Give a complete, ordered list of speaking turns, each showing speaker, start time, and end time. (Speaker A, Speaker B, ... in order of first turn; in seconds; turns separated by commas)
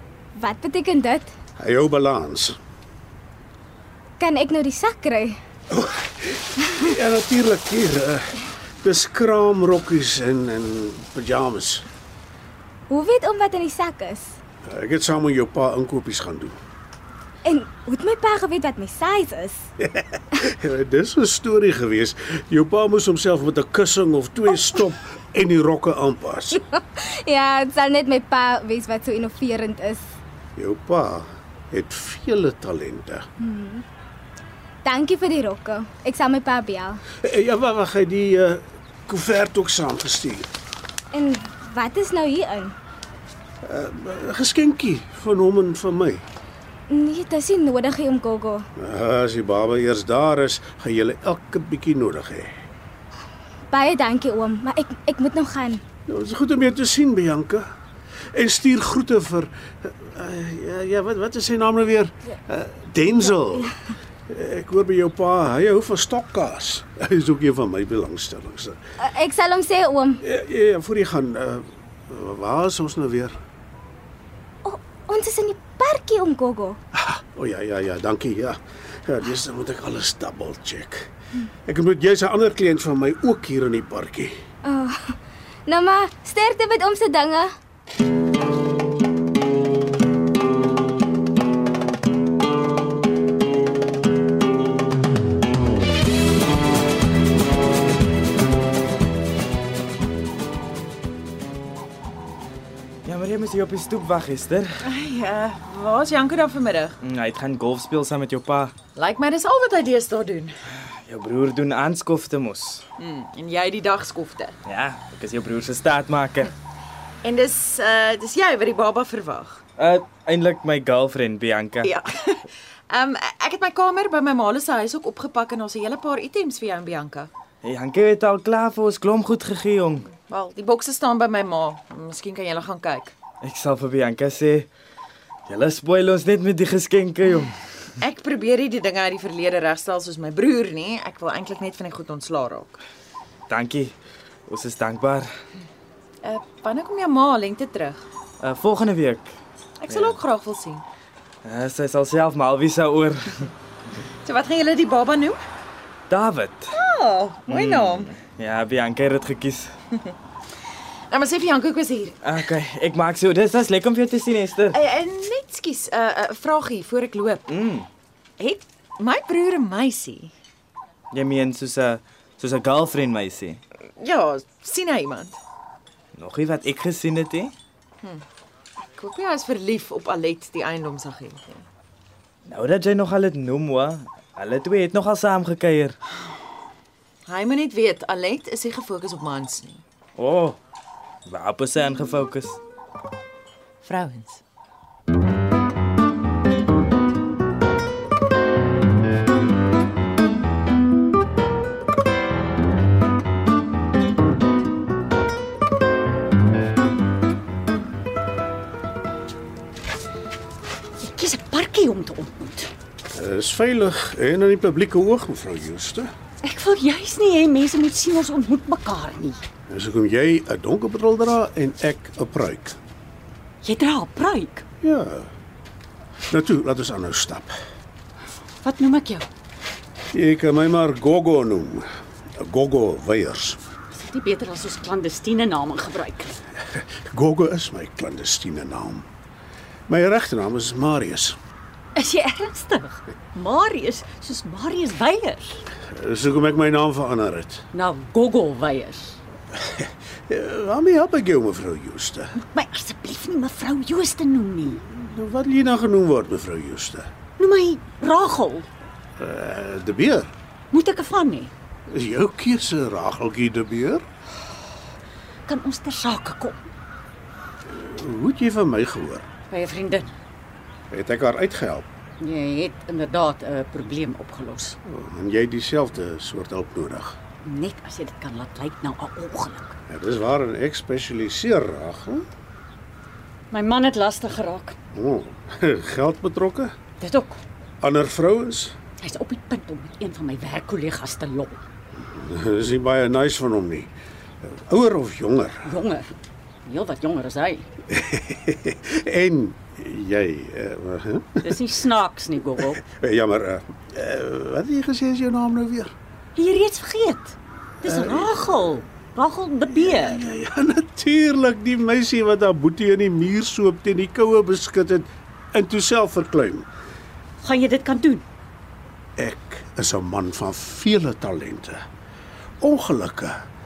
Speaker A: 0.4-1.3, Speaker B: 1.6-2.6, Speaker A: 4.2-5.4, Speaker B: 5.7-11.8, Speaker A: 12.9-14.4, Speaker B: 14.7-16.6, Speaker A: 17.4-19.7, Speaker B: 19.8-26.6, Speaker A: 26.5-30.1, Speaker B: 30.6-33.2, Speaker A: 33.4-33.8, Speaker A: 34.9-37.0, Speaker B: 37.2-40.5, Speaker A: 41.1-42.8, Speaker B: 43.6-46.2, Speaker A: 46.9-48.7, Speaker B: 48.8-52.5, Speaker A: 53.7-55.8, Speaker B: 56.1-57.7, Speaker B: 58.3-63.8, Speaker B: 64.3-68.8, Speaker A: 69.0-70.2, Speaker B: 70.2-73.4, Speaker A: 74.7-76.8, Speaker B: 76.9-81.1, Speaker B: 81.7-84.3, Speaker A: 84.6-87.5, Speaker C: 103.0-104.8, Speaker D: 104.8-107.0, Speaker C: 107.0-108.7, Speaker D: 109.0-110.5, Speaker C: 110.8-112.8, Speaker D: 113.0-114.6, Speaker C: 114.7-116.5, Speaker D: 117.2-119.6, Speaker C: 119.8-121.9, Speaker D: 121.8-127.3, Speaker C: 127.6-130.1, Speaker D: 130.2-133.1, Speaker C: 133.4-134.7, Speaker C: 135.5-137.6, Speaker D: 138.0-142.8, Speaker C: 143.5-143.9, Speaker C: 144.5-145.3, Speaker D: 146.2-148.1, Speaker C: 148.4-149.3, Speaker D: 149.8-150.8, Speaker C: 149.9-150.2, Speaker C: 151.4-153.5, Speaker D: 154.2-155.4, Speaker C: 156.1-156.7, Speaker D: 156.7-158.1, Speaker C: 157.5-159.7, Speaker D: 161.1-162.2, Speaker C: 162.2-164.8, Speaker D: 164.7-167.5, Speaker C: 167.5-167.9, Speaker D: 168.4-170.3, Speaker C: 171.1-173.6, Speaker D: 174.0-175.4, Speaker C: 176.2-177.5, Speaker D: 178.9-181.7, Speaker C: 182.4-185.9, Speaker D: 187.3-189.8, Speaker C: 190.2-190.6, Speaker C: 191.3-192.6, Speaker D: 193.8-194.4, Speaker E: 211.0-212.7, Speaker B: 213.1-216.1, Speaker E: 216.4-219.4, Speaker B: 219.7-222.8, Speaker E: 223.6-224.7, Speaker B: 224.8-225.3, Speaker B: 226.3-227.5, Speaker E: 228.6-229.3, Speaker B: 230.1-231.8, Speaker B: 232.4-233.6, Speaker E: 233.9-236.4, Speaker B: 236.8-239.1, Speaker B: 239.9-241.3, Speaker E: 241.9-245.6, Speaker B: 245.9-247.6, Speaker E: 247.7-249.2, Speaker B: 249.6-252.3, Speaker E: 252.3-254.8, Speaker B: 254.9-257.1, Speaker E: 257.4-258.7, Speaker B: 259.2-260.3, Speaker E: 260.7-261.5, Speaker B: 261.9-264.0, Speaker E: 265.4-266.6, Speaker B: 267.7-269.3, Speaker E: 269.5-270.1, Speaker B: 270.9-271.9, Speaker E: 272.2-274.8, Speaker B: 274.8-277.2, Speaker E: 277.4-279.8, Speaker B: 279.9-282.2, Speaker E: 283.5-284.8, Speaker B: 284.9-286.7, Speaker E: 287.0-287.4, Speaker B: 287.8-288.8, Speaker E: 289.0-291.6, Speaker B: 292.0-293.9, Speaker B: 294.4-295.7, Speaker E: 295.6-297.7, Speaker B: 297.9-301.4, Speaker E: 301.4-302.8, Speaker B: 302.8-305.9, Speaker E: 306.4-310.2, Speaker B: 307.8-308.3, Speaker B: 309.7-316.7, Speaker E: 317.4-318.2, Speaker B: 319.2-321.8, Speaker B: 322.6-323.4